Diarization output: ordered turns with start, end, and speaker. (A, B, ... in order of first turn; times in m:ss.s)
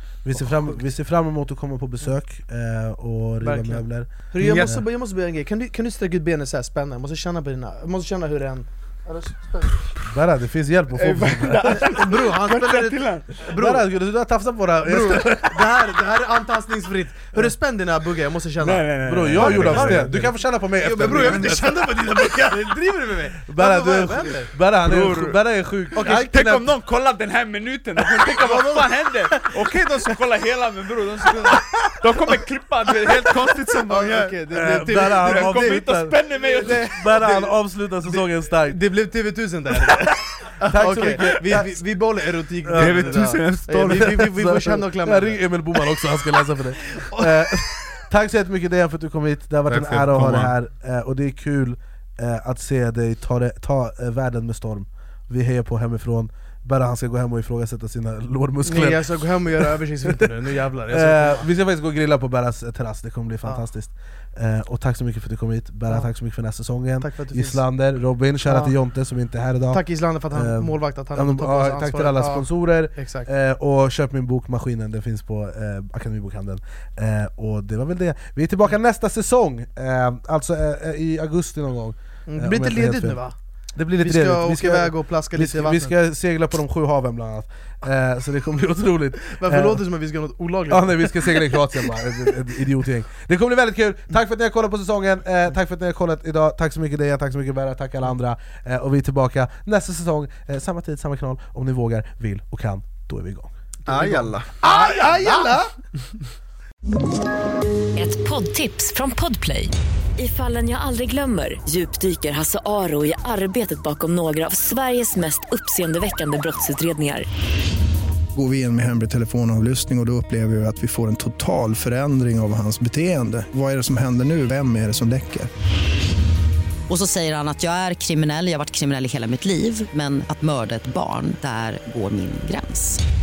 0:00.2-0:04.8 A
0:03.4-0:09.9 B
0:04.4-0:04.8 C
0:10.0-0:11.9 A
0:11.0-0:13.4 C
0:11.6-0:13.9 B
0:13.5-0:15.7 A
0:14.9-0:24.5 B
0:18.6-0:20.3 C
0:19.0-0:21.8 A
0:21.1-0:21.5 C
0:23.5-0:26.7 A
0:24.8-0:25.4 C
0:25.9-0:36.9 C
0:28.1-0:29.6 B
0:33.0-0:37.5 B
0:34.5-0:38.8 A
0:38.0-0:47.7 B
0:40.6-0:41.8 A
0:42.6-1:00.3 A
0:42.8-0:44.1 C
0:49.7-0:50.6 C
0:58.6-1:01.4 B
1:00.9-1:23.2 A
1:07.0-1:07.6 B
1:08.4-1:08.7 B
1:09.7-1:13.3 B
1:22.3-1:23.4 B
1:23.8-1:29.8 A
1:24.0-1:25.9 B
1:29.3-1:31.9 B
1:30.7-1:44.3 A
1:43.8-1:44.6 C
1:44.6-1:45.7 B
1:47.9-1:57.3 D
1:58.4-2:05.5 E
2:06.9-2:13.0 F